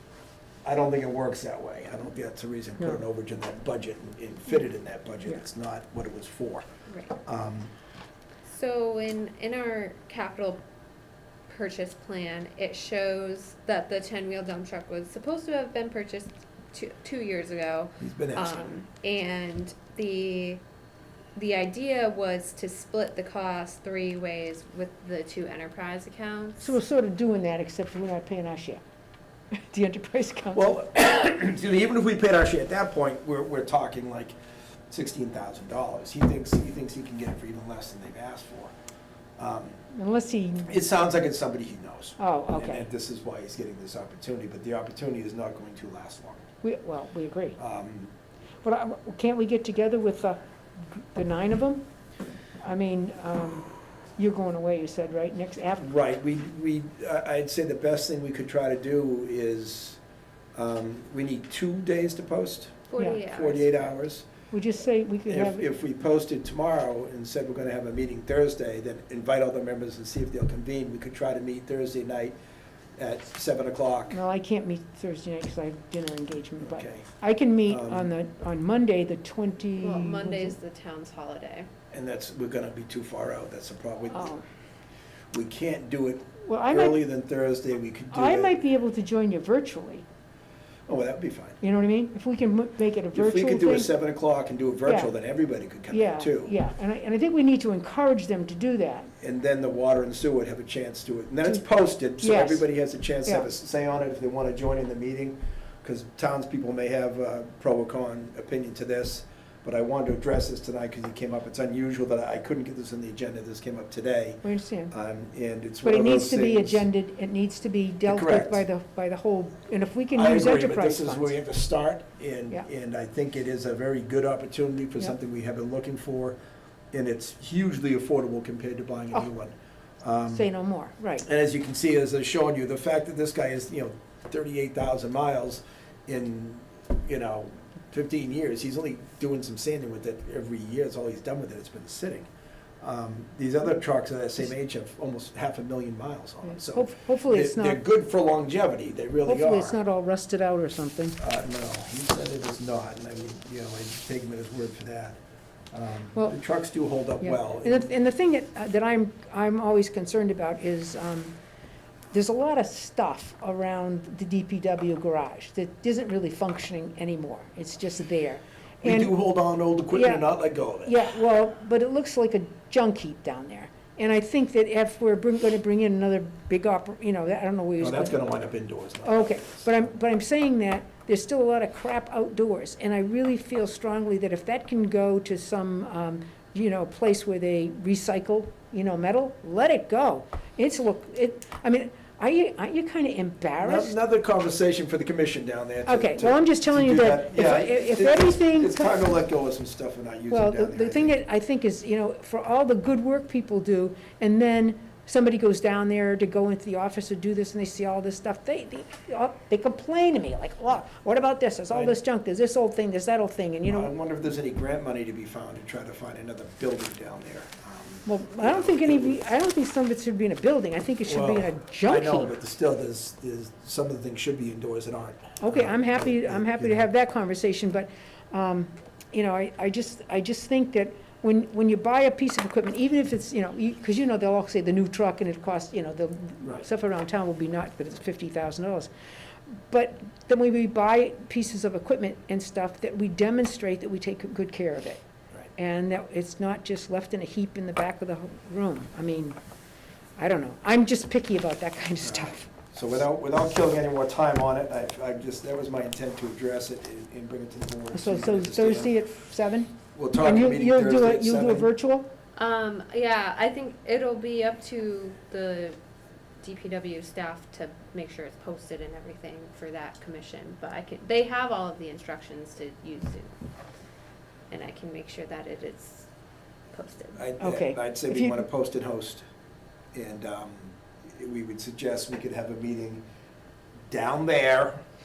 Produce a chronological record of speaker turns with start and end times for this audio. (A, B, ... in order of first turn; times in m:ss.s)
0:00.6-0:06.6 A
0:06.9-0:07.2 B
0:07.2-0:07.7 A
0:08.4-0:10.6 B
0:11.5-0:20.6 B
0:18.0-0:18.7 A
0:21.4-0:26.8 B
0:26.6-0:28.8 C
0:29.7-0:30.7 C
0:30.5-0:34.4 A
0:34.9-0:38.7 A
0:39.4-0:39.8 A
0:39.9-0:40.8 C
0:40.6-0:46.4 A
0:42.2-0:42.9 C
0:46.6-0:47.6 C
0:47.6-0:48.1 A
0:48.6-0:50.4 C
0:50.9-0:51.8 C
0:52.6-0:55.9 C
0:55.8-1:00.0 A
1:00.6-1:04.3 A
1:02.9-1:03.7 B
1:04.5-1:05.7 C
1:05.3-1:12.4 A
1:13.0-1:14.2 A
1:14.1-1:20.6 C
1:16.6-1:17.1 A
1:17.7-1:18.1 A
1:19.8-1:21.7 B
1:21.9-1:24.4 A
1:24.1-1:24.4 C
1:25.3-1:28.6 A
1:26.4-1:27.0 C
1:28.1-1:30.1 C
1:30.9-1:31.6 A
1:31.6-1:33.9 C
1:33.1-1:36.6 A
1:34.9-1:35.1 C
1:35.9-1:39.1 C
1:39.2-1:56.8 A
1:41.4-1:42.6 C
1:54.4-1:54.9 C
1:55.8-2:01.4 C
1:58.0-1:58.6 A
2:00.1-2:06.4 A
2:06.9-2:10.5 A
2:10.3-2:11.3 C
2:11.2-2:22.3 A
2:22.8-2:29.8 A
2:26.4-2:27.8 C
2:29.2-2:31.2 C
2:31.2-2:35.2 A
2:35.7-2:37.9 A
2:37.2-2:41.4 C
2:42.1-2:49.1 C
2:48.8-2:51.0 A
2:49.9-2:50.3 C
2:50.8-2:58.2 C
2:57.8-2:59.7 A
2:59.0-3:14.0 C
3:13.6-3:21.2 A
3:15.9-3:19.2 C
3:20.3-3:33.9 C
3:31.7-3:32.0 A
3:33.6-3:39.3 A
3:38.1-3:42.4 C
3:41.1-3:46.8 A
3:45.4-3:58.9 C
3:59.5-4:05.0 C
4:05.6-4:09.4 C
4:10.2-4:12.5 C
4:12.0-4:18.9 A
4:17.9-4:22.1 C
4:20.0-4:21.7 A
4:22.4-4:25.8 B
4:26.4-4:33.3 B
4:34.5-4:36.1 B
4:36.7-4:37.2 B
4:37.2-4:39.2 A
4:37.4-4:38.5 C
4:39.9-4:43.0 A
4:43.9-4:44.8 A